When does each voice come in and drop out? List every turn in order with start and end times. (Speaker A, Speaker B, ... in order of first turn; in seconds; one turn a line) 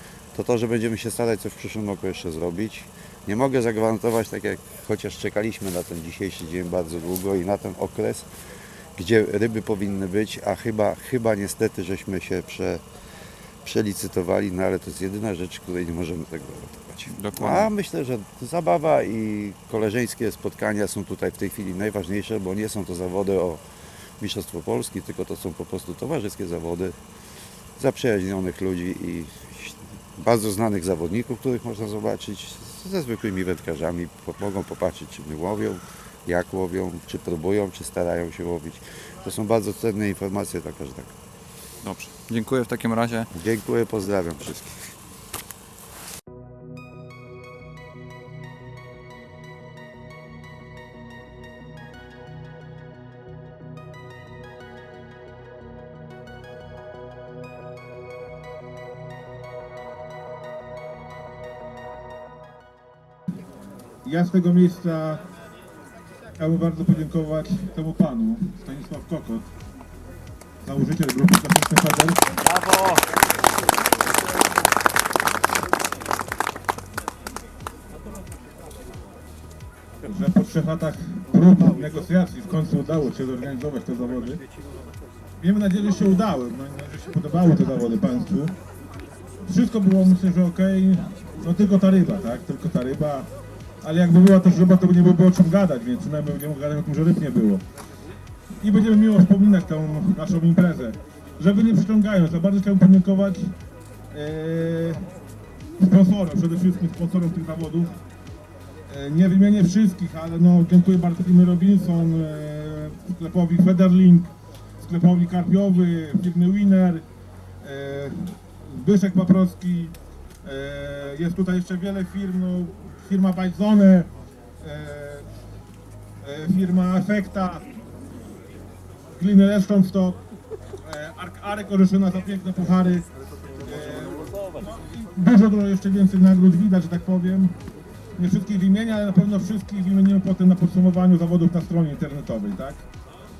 Speaker A: 0.3-8.3
Speaker A: 8.9-12.8
Speaker A: 13.6-23.6
Speaker B: 17.1-17.7
Speaker A: 24.2-26.9
Speaker A: 27.8-41.1
Speaker B: 41.8-43.3
Speaker A: 43.3-44.9
Speaker C: 64.0-65.2
Speaker C: 66.4-69.5
Speaker C: 70.6-72.2
Speaker C: 80.0-84.4
Speaker C: 85.4-88.5
Speaker C: 89.4-93.3
Speaker C: 93.8-97.6
Speaker C: 98.6-103.5
Speaker C: 104.1-105.0
Speaker C: 105.8-108.0
Speaker C: 108.9-117.0
Speaker C: 117.6-119.9
Speaker C: 120.4-124.1
Speaker C: 124.6-125.3
Speaker C: 126.2-127.7
Speaker C: 129.2-130.2
Speaker C: 130.8-133.1
Speaker C: 133.6-137.6
Speaker C: 138.2-142.8